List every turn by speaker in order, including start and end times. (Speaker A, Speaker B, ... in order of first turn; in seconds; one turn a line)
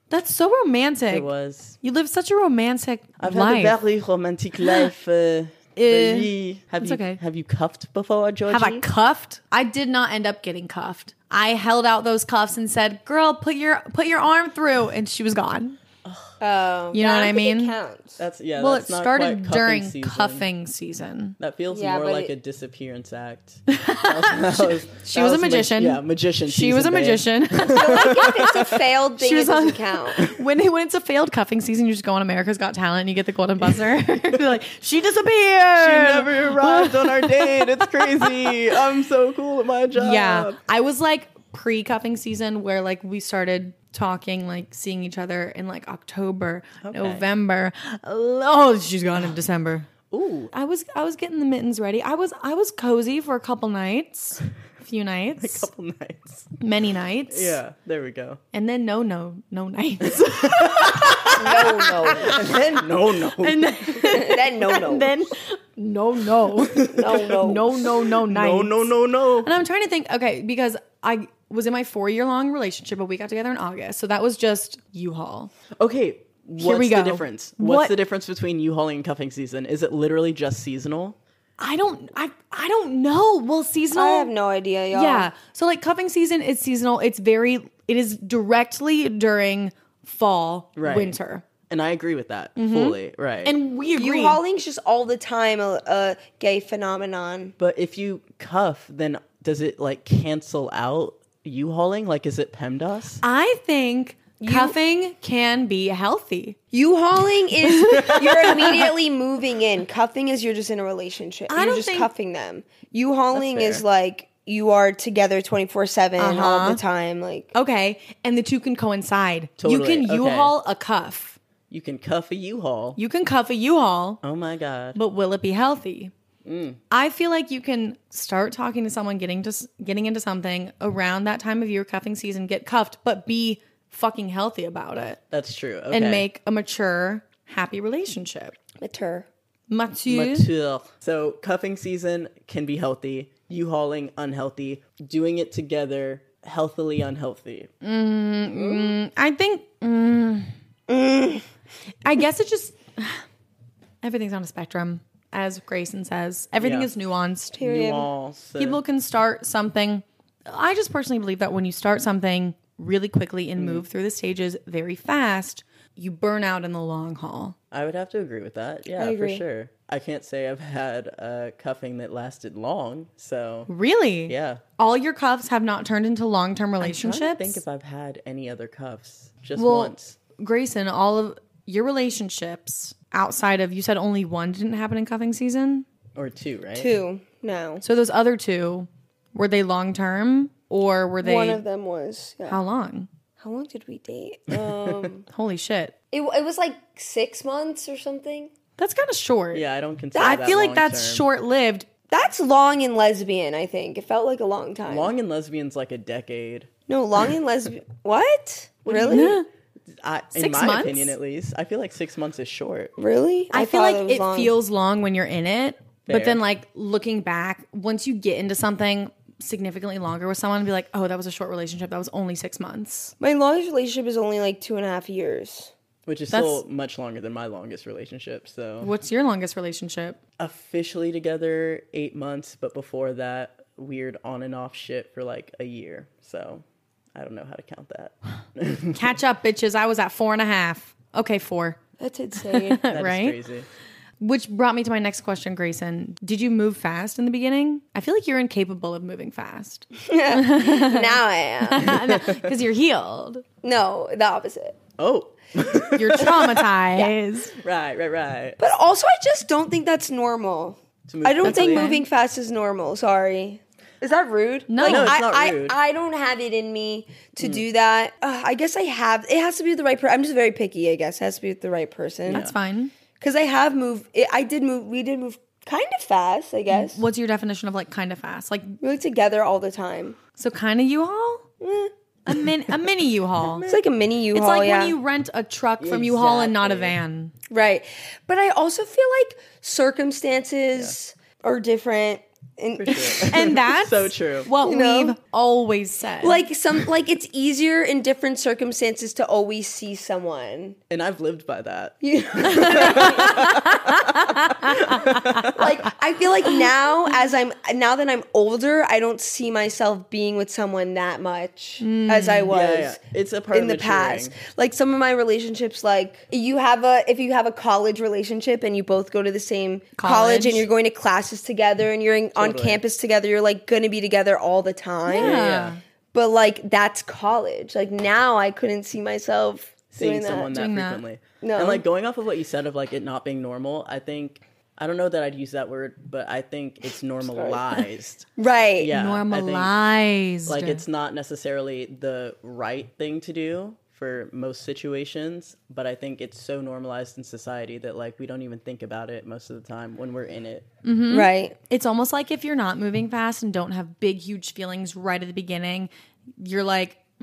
Speaker A: 0.1-3.7
Speaker B: 1.1-1.8
Speaker B: 3.2-8.8
Speaker A: 4.6-4.9
Speaker A: 5.7-7.2
Speaker A: 8.5-15.8
Speaker B: 16.0-16.4
Speaker C: 16.4-18.2
Speaker A: 16.9-17.7
Speaker B: 18.2-20.4
Speaker A: 18.6-21.4
Speaker B: 21.4-28.7
Speaker C: 21.7-22.3
Speaker A: 23.7-28.4
Speaker C: 27.6-30.3
Speaker A: 29.2-38.5
Speaker B: 35.8-40.6
Speaker A: 39.9-49.9
Speaker B: 46.8-47.2
Speaker B: 50.1-50.5
Speaker A: 50.5-55.7
Speaker B: 55.4-56.5
Speaker A: 56.6-57.6
Speaker B: 57.3-58.4
Speaker A: 58.5-62.6
Speaker B: 60.0-64.1
Speaker C: 61.4-62.4
Speaker A: 63.4-75.5
Speaker C: 64.1-65.3
Speaker B: 66.6-67.3
Speaker C: 66.9-67.8
Speaker B: 68.2-69.5
Speaker B: 75.8-81.2
Speaker A: 76.6-77.9
Speaker A: 81.6-84.3
Speaker C: 83.9-85.3
Speaker A: 84.9-91.4
Speaker B: 90.8-91.2
Speaker B: 91.7-93.5
Speaker A: 92.5-94.4
Speaker C: 94.0-97.5
Speaker B: 97.6-103.2
Speaker A: 103.2-106.6
Speaker C: 104.4-104.8
Speaker C: 106.7-117.5
Speaker A: 107.6-108.8
Speaker B: 107.9-108.8
Speaker A: 111.5-112.1
Speaker B: 113.3-113.8
Speaker A: 116.2-116.8
Speaker A: 117.5-121.4
Speaker B: 119.6-120.5
Speaker B: 121.7-123.0
Speaker A: 123.0-124.2
Speaker B: 124.2-125.0
Speaker A: 124.9-126.1
Speaker B: 126.4-126.8
Speaker A: 126.9-135.2
Speaker B: 135.3-136.3
Speaker A: 135.9-138.5
Speaker C: 138.8-139.3
Speaker A: 139.7-140.5
Speaker B: 140.1-147.7
Speaker A: 147.8-150.5
Speaker C: 148.6-148.9
Speaker C: 150.9-151.4
Speaker A: 152.0-153.2
Speaker A: 154.0-157.6
Speaker B: 156.6-156.9
Speaker C: 157.6-158.1
Speaker B: 157.6-158.8
Speaker A: 158.6-167.5
Speaker B: 163.6-163.8
Speaker B: 167.7-173.7
Speaker C: 169.0-169.4
Speaker A: 173.7-177.6
Speaker B: 174.3-174.6
Speaker B: 176.8-180.2
Speaker A: 179.6-185.8
Speaker B: 186.1-186.9
Speaker C: 186.7-187.8
Speaker A: 187.8-191.6
Speaker C: 191.2-192.6
Speaker A: 192.5-193.1
Speaker C: 193.4-195.2
Speaker B: 194.5-195.1
Speaker A: 195.3-195.9
Speaker C: 196.1-198.5
Speaker A: 198.8-199.6
Speaker B: 199.5-201.2
Speaker C: 200.1-200.5
Speaker A: 200.2-201.9
Speaker C: 202.1-205.1
Speaker B: 204.8-206.7
Speaker C: 206.9-209.3
Speaker B: 208.8-209.4
Speaker A: 209.1-209.4
Speaker B: 210.0-212.9
Speaker A: 210.3-211.1
Speaker C: 213.0-214.5
Speaker A: 213.5-223.1
Speaker B: 216.1-216.4
Speaker C: 223.2-225.7
Speaker B: 226.1-228.9
Speaker A: 226.3-226.6
Speaker A: 228.8-230.2
Speaker B: 230.4-239.1
Speaker A: 238.9-241.8
Speaker C: 242.0-242.8
Speaker A: 242.4-243.4
Speaker B: 242.9-243.7
Speaker A: 244.2-253.4
Speaker C: 250.0-251.9
Speaker B: 251.9-252.5
Speaker C: 253.6-254.8
Speaker B: 255.0-256.7
Speaker A: 255.9-257.5
Speaker B: 257.6-258.6
Speaker C: 258.6-272.4
Speaker B: 261.1-261.9
Speaker A: 261.4-262.0
Speaker A: 264.7-265.2
Speaker B: 264.8-265.8
Speaker B: 267.4-267.6
Speaker B: 272.3-272.5
Speaker A: 272.3-272.9
Speaker C: 273.2-277.0
Speaker A: 276.7-278.8
Speaker C: 278.8-280.2
Speaker A: 280.4-281.4
Speaker C: 281.6-281.9
Speaker A: 282.2-283.7
Speaker B: 283.4-283.8
Speaker C: 283.6-285.0
Speaker A: 284.3-287.3
Speaker B: 285.8-286.9
Speaker C: 287.5-293.3
Speaker B: 292.8-294.5
Speaker A: 293.2-296.4
Speaker C: 294.6-295.1
Speaker C: 296.2-300.8
Speaker B: 300.9-303.7
Speaker C: 302.0-303.7
Speaker A: 302.4-305.6
Speaker B: 304.6-305.7
Speaker C: 305.4-313.0
Speaker A: 311.8-312.5
Speaker B: 312.5-314.3
Speaker C: 313.5-325.4
Speaker A: 320.0-320.6
Speaker B: 322.3-322.8
Speaker A: 325.1-325.8
Speaker B: 325.1-325.8
Speaker C: 326.1-330.5
Speaker B: 329.9-339.7
Speaker A: 330.5-331.0
Speaker C: 331.4-331.8
Speaker C: 337.2-337.6
Speaker C: 338.4-338.9
Speaker A: 338.9-340.8
Speaker B: 340.4-350.6
Speaker A: 350.8-357.0
Speaker C: 351.1-351.6